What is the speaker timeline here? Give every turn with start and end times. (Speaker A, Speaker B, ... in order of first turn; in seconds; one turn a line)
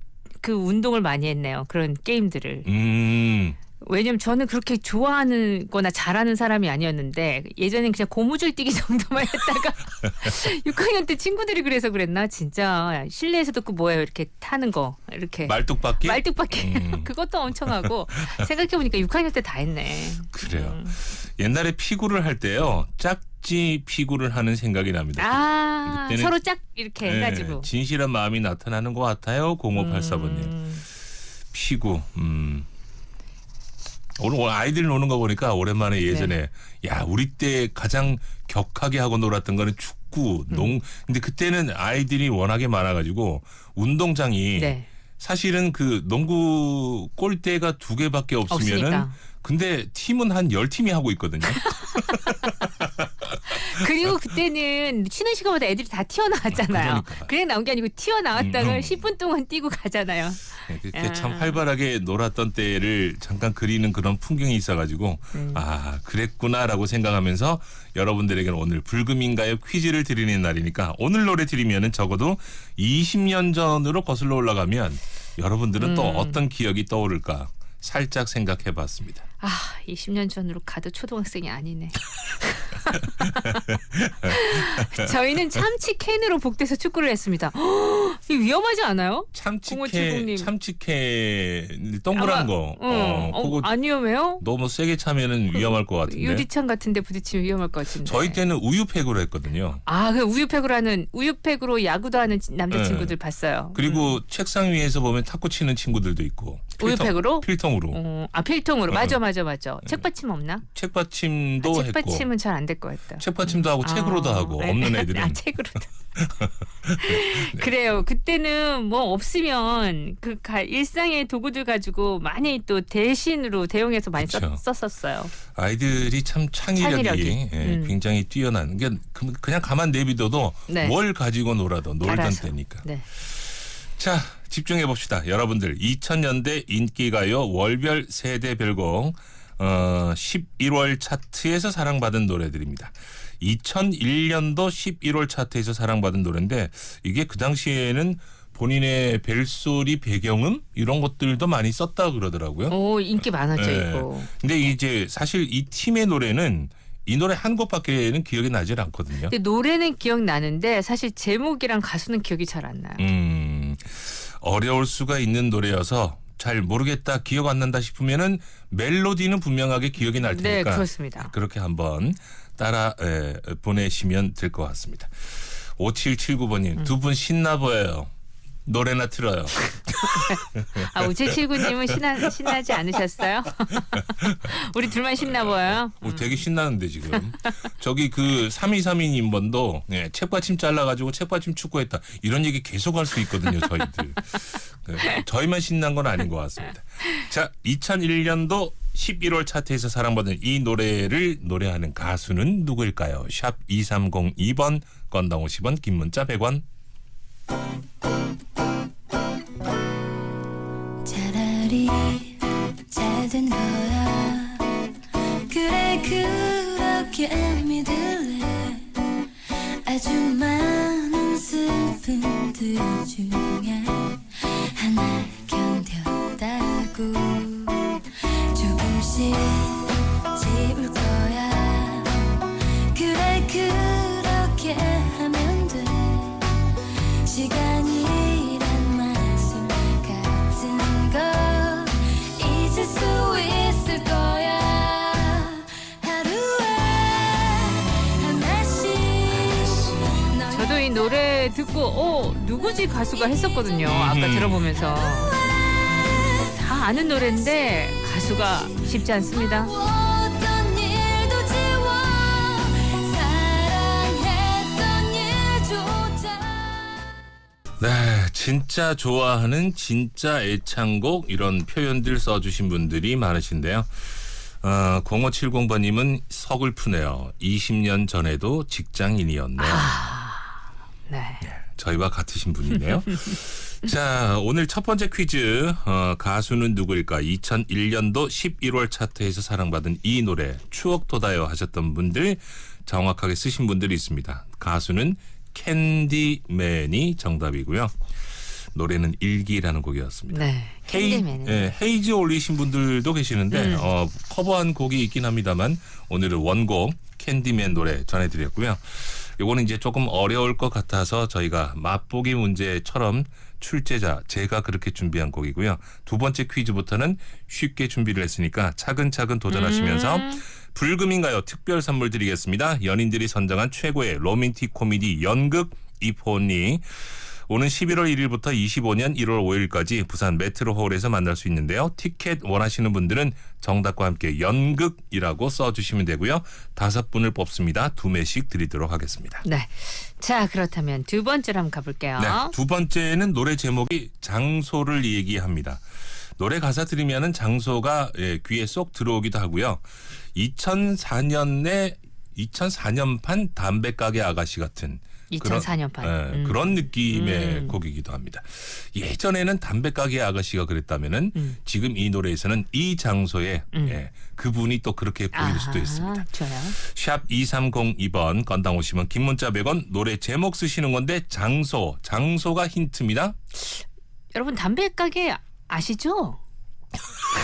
Speaker A: 0.4-2.7
Speaker B: 2.6-3.6
Speaker A: 3.8-21.0
Speaker B: 15.5-18.4
Speaker B: 20.3-26.4
Speaker A: 25.2-27.7
Speaker B: 27.0-30.6
Speaker A: 29.8-30.9
Speaker B: 31.5-32.7
Speaker B: 34.2-54.3
Speaker A: 36.1-36.3
Speaker A: 44.6-44.9
Speaker A: 48.5-49.2
Speaker A: 51.5-52.5
Speaker A: 53.5-61.6
Speaker B: 56.5-57.3
Speaker B: 58.4-59.0
Speaker B: 60.7-79.2
Speaker A: 65.3-65.6
Speaker A: 75.8-76.4
Speaker A: 79.4-83.7
Speaker B: 83.2-85.6
Speaker A: 84.3-90.5
Speaker B: 89.3-93.7
Speaker A: 92.1-94.4
Speaker B: 94.4-96.5
Speaker A: 95.5-98.4
Speaker B: 98.0-99.8
Speaker A: 99.9-104.2
Speaker B: 102.7-103.2
Speaker B: 103.7-108.0
Speaker A: 106.8-110.7
Speaker B: 108.9-109.2
Speaker B: 110.6-112.3
Speaker A: 111.6-115.9
Speaker B: 113.2-115.4
Speaker B: 116.2-117.7
Speaker A: 117.0-125.3
Speaker B: 124.2-124.6
Speaker B: 125.5-159.3
Speaker A: 126.8-128.0
Speaker A: 130.7-130.9
Speaker A: 132.0-133.1
Speaker A: 152.7-154.3
Speaker A: 159.3-163.0
Speaker B: 163.0-178.1
Speaker A: 170.2-171.3
Speaker B: 178.7-182.7
Speaker A: 180.0-186.4
Speaker B: 183.7-184.6
Speaker B: 185.2-206.7
Speaker A: 187.2-187.7
Speaker C: 211.1-214.7
Speaker C: 215.5-218.9
Speaker C: 219.8-232.3
Speaker C: 232.9-236.5
Speaker C: 237.2-251.6
Speaker A: 250.5-255.3
Speaker C: 252.5-253.8
Speaker B: 253.8-254.6
Speaker C: 254.7-267.1
Speaker A: 256.6-259.7
Speaker B: 267.8-280.1
Speaker A: 279.6-281.5
Speaker B: 281.4-298.0
Speaker B: 298.7-339.4
Speaker A: 300.3-301.7
Speaker A: 303.5-303.9
Speaker A: 319.5-320.4
Speaker A: 339.4-342.5
Speaker B: 342.2-373.4
Speaker A: 355.3-357.8
Speaker A: 363.7-364.0
Speaker A: 365.3-366.8
Speaker A: 373.6-373.8
Speaker A: 374.3-376.4